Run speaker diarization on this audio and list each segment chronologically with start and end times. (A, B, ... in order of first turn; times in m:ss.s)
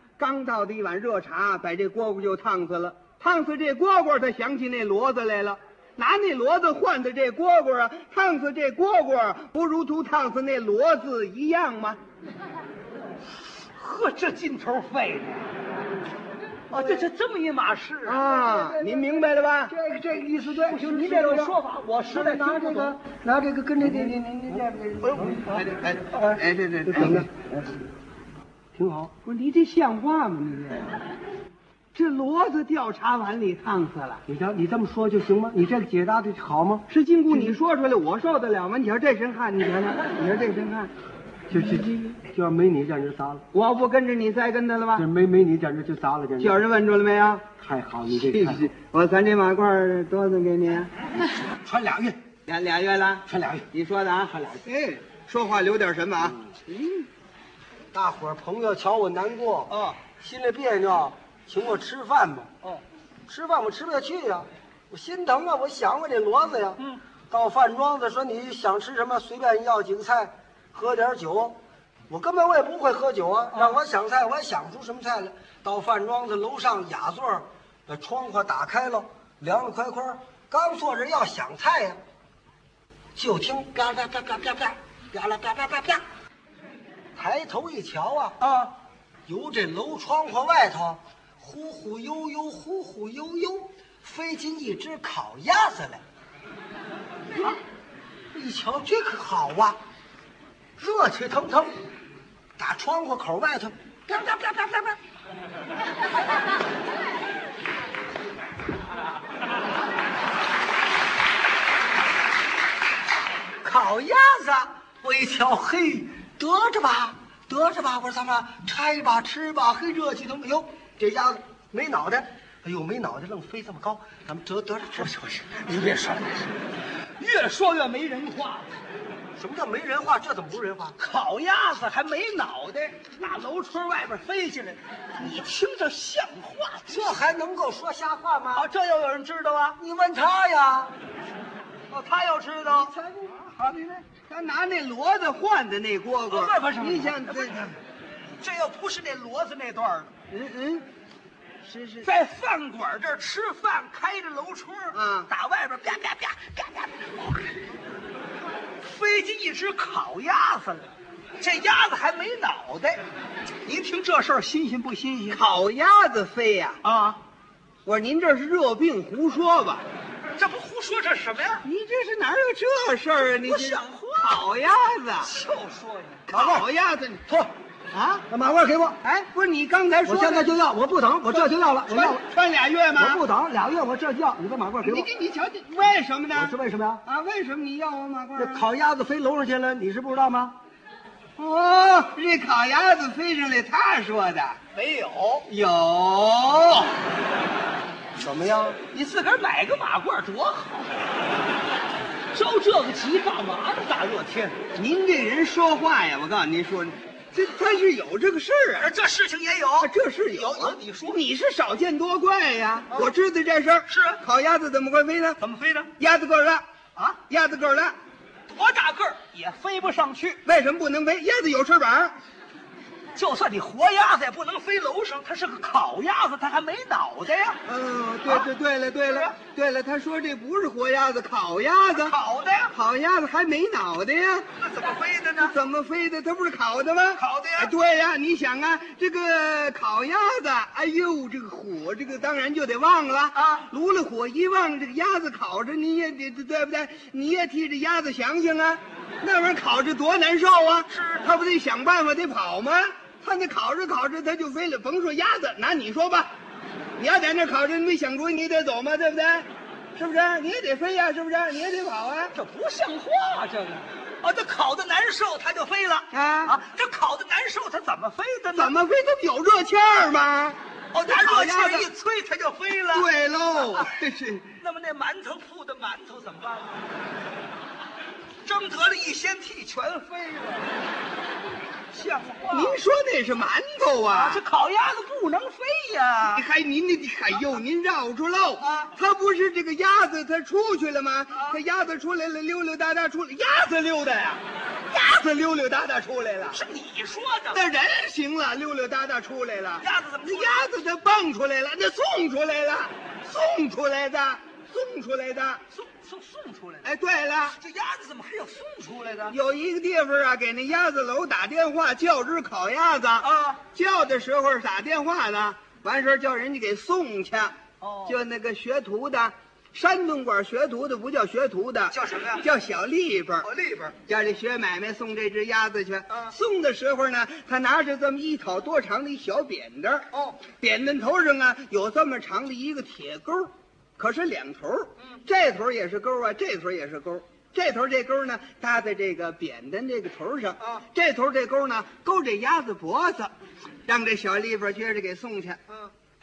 0:00.2-0:12.0 A
0:13.8-0:15.5 B
0:16.7-0:18.2 B
0:16.7-0:17.0 C
0:18.0-0:19.7 A
0:18.2-0:21.5 C
0:20.3-0:23.0 B
0:22.1-0:25.6 C
0:23.8-0:27.6 A
0:25.0-0:25.6 B
0:26.9-0:27.3 C
0:28.7-0:29.1 C
0:29.2-0:31.0 A
0:31.9-0:34.2 A
0:34.2-0:36.9 C
0:36.9-0:40.9 A
0:41.5-0:43.4 C
0:43.5-0:45.0 A
0:44.9-0:46.6 C
0:46.4-0:47.5 A
0:47.6-0:48.6 C
0:48.1-0:50.9 A
0:51.6-0:52.2 C
0:52.5-0:57.1 A
0:53.3-0:53.6 C
0:57.9-1:02.5 C
0:59.7-1:00.0 B
1:03.3-1:11.6 C
1:12.1-1:22.0 C
1:23.2-1:26.0 C
1:27.2-1:28.4 C
1:28.4-1:28.7 B
1:29.3-1:36.0 C
1:38.3-1:39.8 C
1:40.8-1:41.8 C
1:42.6-1:45.0 C
1:53.6-2:05.1 C
2:05.0-2:06.5 B
2:07.2-2:08.7 B
2:09.4-2:11.0 C
2:11.0-2:17.1 B
2:16.9-2:18.7 C
2:18.5-2:19.8 B
2:19.8-2:20.9 C
2:21.9-2:22.9 B
2:22.6-2:23.6 C
2:24.1-2:27.7 A
2:26.3-2:27.7 B
2:28.4-2:30.1 B
2:30.3-2:30.8 A
2:31.6-2:32.1 A
2:32.0-2:37.6 B
2:34.9-2:35.3 A
2:38.8-2:43.0 B
2:43.6-2:45.4 B
2:45.3-2:46.8 A
2:46.8-2:47.2 B
2:47.8-2:49.8 A
2:50.4-2:51.6 B
2:51.6-2:55.3 A
2:53.3-2:54.4 B
2:55.2-2:56.3 B
2:56.3-2:57.2 A
2:56.3-2:56.6 C
2:57.3-2:57.5 C
2:57.9-2:58.2 A
2:58.3-2:59.0 C
2:59.0-3:00.5 A
3:00.0-3:02.2 C
3:01.3-3:03.2 A
3:03.0-3:05.1 C
3:04.8-3:08.6 A
3:06.3-3:07.0 C
3:08.4-3:10.6 C
3:11.4-3:14.6 A
3:14.7-3:15.5 B
3:15.5-3:16.9 A
3:18.2-3:18.8 C
3:18.9-3:21.1 B
3:22.3-3:24.6 B
3:24.7-3:28.9 A
3:28.8-3:31.2 B
3:29.8-3:35.4 A
3:33.9-3:34.2 B
3:35.4-3:35.9 B
3:36.0-3:36.6 A
3:37.2-3:38.0 A
3:38.5-3:40.4 B
3:40.4-3:42.1 A
3:43.1-3:47.6 B
3:47.6-3:52.1 A
3:49.1-3:49.3 B
3:51.9-3:52.7 B
3:52.7-3:54.5 A
3:54.6-3:55.5 B
3:55.4-4:16.3 A
3:57.2-3:57.7 B
4:03.3-4:03.6 B
4:10.9-4:11.3 B
4:17.0-4:22.3 A
4:22.3-4:28.8 B
4:26.1-4:26.5 A
4:28.5-4:31.9 A
4:30.9-4:33.1 B
4:32.9-4:34.5 A
4:33.6-4:33.9 B
4:34.6-4:36.8 B
4:38.4-4:40.7 B
4:41.9-4:42.8 B
4:42.5-4:44.4 A
4:44.1-4:46.4 B
4:46.3-4:56.6 A
4:48.6-4:48.9 B
4:51.3-4:51.6 B
4:56.5-4:57.6 B
4:57.5-5:05.6 A
4:59.8-5:00.7 B
5:05.7-5:06.9 B
5:06.8-5:07.6 A
5:07.6-5:09.3 B
5:09.3-5:23.5 A
5:13.2-5:13.6 B
5:17.8-5:18.2 B
5:21.9-5:22.4 B
5:23.4-5:24.0 B
5:24.0-5:43.3 A
5:30.1-5:30.4 B
5:43.8-5:45.6 A